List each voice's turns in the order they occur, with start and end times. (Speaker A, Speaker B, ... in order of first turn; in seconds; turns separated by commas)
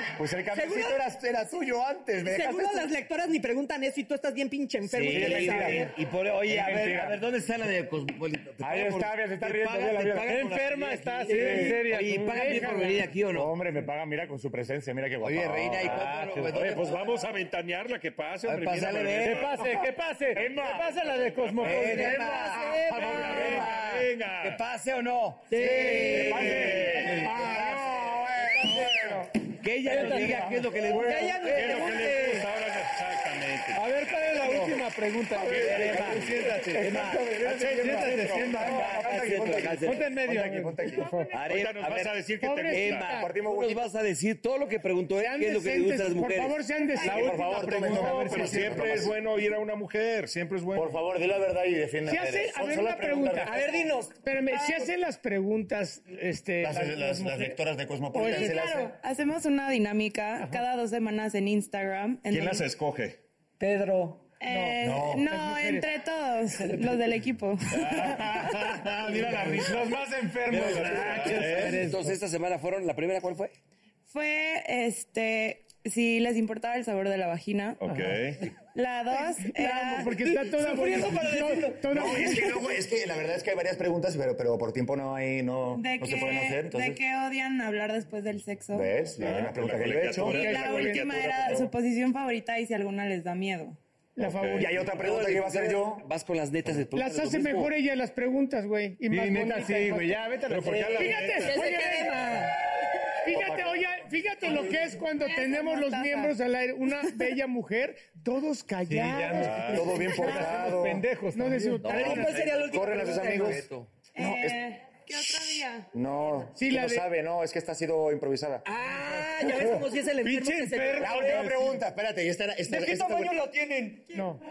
Speaker A: 0.2-2.9, Speaker B: 0.5-1.0, Speaker B: 2.2-5.9, Speaker C: 4.9-13.5, Speaker A: 5.1-7.2, Speaker A: 8.6-10.4, Speaker D: 10.2-13.1, Speaker B: 11.1-11.7, Speaker E: 12.3-12.8, Speaker A: 13.3-16.1, Speaker C: 15.2-17.0, Speaker D: 15.8-16.7, Speaker F: 16.5-19.6, Speaker C: 18.4-19.5, Speaker D: 19.2-23.7, Speaker A: 20.3-20.9, Speaker F: 21.1-21.8, Speaker C: 21.6-26.8, Speaker B: 22.1-22.9, Speaker E: 22.4-22.7, Speaker A: 22.9-23.7, Speaker F: 22.9-24.6, Speaker B: 25.5-26.3, Speaker E: 25.6-29.3, Speaker A: 25.7-29.2, Speaker D: 25.8-27.6, Speaker F: 26.1-27.2, Speaker C: 29.5-31.9, Speaker D: 29.8-32.4, Speaker A: 29.9-30.9, Speaker B: 30.9-32.2, Speaker F: 31.4-34.1, Speaker D: 33.7-41.3, Speaker A: 34.4-34.7, Speaker A: 35.4-41.1, Speaker F: 35.5-36.6, Speaker C: 35.5-36.2, Speaker C: 36.8-37.3, Speaker C: 38.5-40.0, Speaker C: 41.3-46.6, Speaker F: 41.4-43.1, Speaker E: 42.4-43.3, Speaker A: 43.1-43.8, Speaker E: 45.2-48.3, Speaker D: 47.0-48.9, Speaker A: 47.0-49.1, Speaker F: 47.9-50.9, Speaker A: 50.7-53.8, Speaker E: 52.0-53.6, Speaker B: 53.4-54.8, Speaker E: 54.2-57.6, Speaker A: 56.6-59.0, Speaker E: 58.1-58.8, Speaker G: 58.2-62.6, Speaker F: 62.3-63.2, Speaker B: 63.6-64.2, Speaker G: 64.4-68.1, Speaker E: 64.4-65.9, Speaker A: 64.8-65.3, Speaker F: 67.9-69.8, Speaker D: 69.3-72.2, Speaker F: 70.5-71.8, Speaker C: 70.5-73.5, Speaker G: 74.1-77.8, Speaker F: 77.8-78.4, Speaker G: 78.7-80.1, Speaker E: 79.2-82.5, Speaker B: 80.2-82.5, Speaker A: 81.9-87.0, Speaker G: 85.7-89.0, Speaker A: 88.7-90.5, Speaker F: 89.2-91.7, Speaker G: 90.2-93.8, Speaker E: 90.2-91.1, Speaker E: 94.2-94.8, Speaker F: 94.2-94.8, Speaker A: 94.6-96.1, Speaker C: 94.9-97.7, Speaker E: 96.9-100.2, Speaker D: 99.1-101.3, Speaker F: 100.5-101.7, Speaker E: 100.9-102.2, Speaker B: 101.4-102.5, Speaker E: 103.2-110.7, Speaker A: 103.3-103.6, Speaker G: 104.5-106.3, Speaker D: 108.9-112.1, Speaker F: 109.3-110.1, Speaker A: 109.7-111.0, Speaker E: 111.3-112.4, Speaker C: 111.8-113.9, Speaker B: 111.9-113.6, Speaker A: 112.3-113.6, Speaker G: 114.1-115.9, Speaker A: 114.2-114.6, Speaker A: 115.9-118.7, Speaker E: 116.5-117.1, Speaker B: 118.6-121.5, Speaker D: 119.0-119.3, Speaker D: 120.2-121.8, Speaker A: 121.0-123.4, Speaker B: 122.7-124.1, Speaker E: 124.1-124.4